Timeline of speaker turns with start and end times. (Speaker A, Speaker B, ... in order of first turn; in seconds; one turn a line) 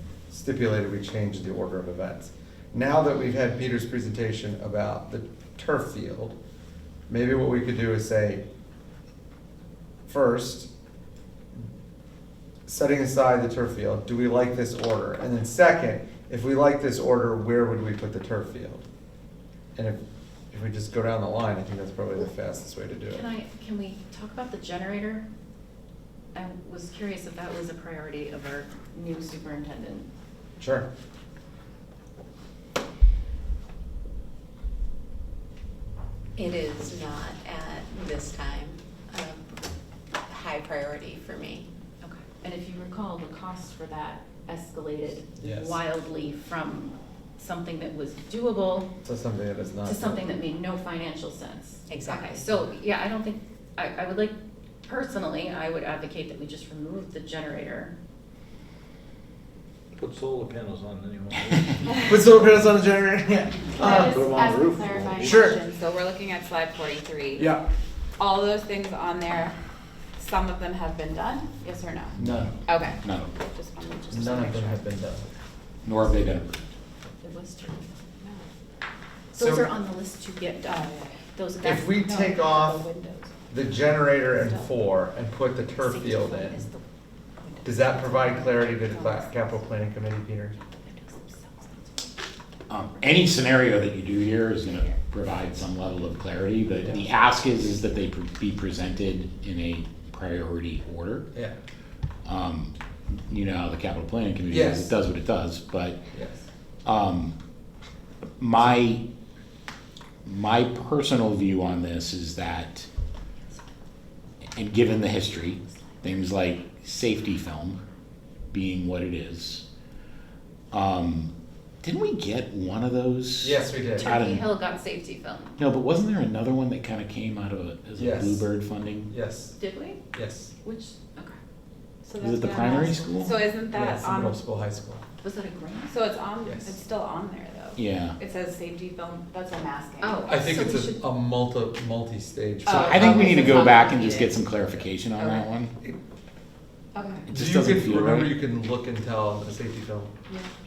Speaker A: 0.3-6.4
Speaker A: 7.1-8.4
Speaker A: 10.1-10.7
Speaker A: 12.7-18.8
Speaker A: 19.8-20.0
Speaker A: 20.5-23.3
Speaker B: 23.1-25.2
Speaker B: 26.4-30.1
Speaker A: 30.6-30.9
Speaker C: 36.4-39.6
Speaker C: 40.2-41.7
Speaker B: 42.0-48.9
Speaker A: 45.4-45.8
Speaker A: 49.0-50.3
Speaker B: 49.8-57.9
Speaker C: 51.9-52.4
Speaker D: 60.0-62.2
Speaker A: 62.0-64.4
Speaker D: 63.8-65.6
Speaker E: 63.9-67.6
Speaker A: 65.1-65.6
Speaker E: 68.2-69.5
Speaker E: 70.2-75.0
Speaker F: 72.2-73.3
Speaker A: 72.2-72.5
Speaker A: 74.1-75.3
Speaker F: 75.8-76.6
Speaker B: 77.2-77.9
Speaker E: 78.2-78.5
Speaker B: 79.3-82.3
Speaker A: 79.4-79.7
Speaker E: 80.7-81.3
Speaker A: 81.6-82.9
Speaker E: 82.0-83.3
Speaker A: 83.5-86.6
Speaker B: 84.4-84.7
Speaker B: 85.8-86.8
Speaker B: 87.4-89.6
Speaker A: 87.6-90.6
Speaker B: 90.9-92.0
Speaker F: 92.7-101.3
Speaker F: 102.2-106.0
Speaker A: 104.5-104.9
Speaker A: 106.1-106.4
Speaker F: 106.8-107.3
Speaker F: 108.4-109.0
Speaker F: 110.3-112.9
Speaker F: 114.5-117.8
Speaker F: 118.5-119.6
Speaker F: 120.7-121.3
Speaker F: 121.8-124.5
Speaker A: 123.4-124.1
Speaker B: 124.0-125.6
Speaker F: 125.6-129.1
Speaker A: 128.0-128.5
Speaker A: 129.1-129.6
Speaker B: 129.6-130.0
Speaker A: 130.1-130.5
Speaker B: 130.6-131.4
Speaker E: 132.0-134.4
Speaker F: 132.2-133.3
Speaker A: 133.7-135.0
Speaker B: 135.2-136.0
Speaker E: 135.9-140.4
Speaker A: 136.4-136.8
Speaker F: 137.8-138.2
Speaker B: 140.0-141.1
Speaker A: 140.3-143.7
Speaker E: 142.7-144.3
Speaker F: 142.7-145.7
Speaker B: 143.8-144.3
Speaker E: 146.9-147.3
Speaker F: 147.3-148.4
Speaker A: 147.3-150.1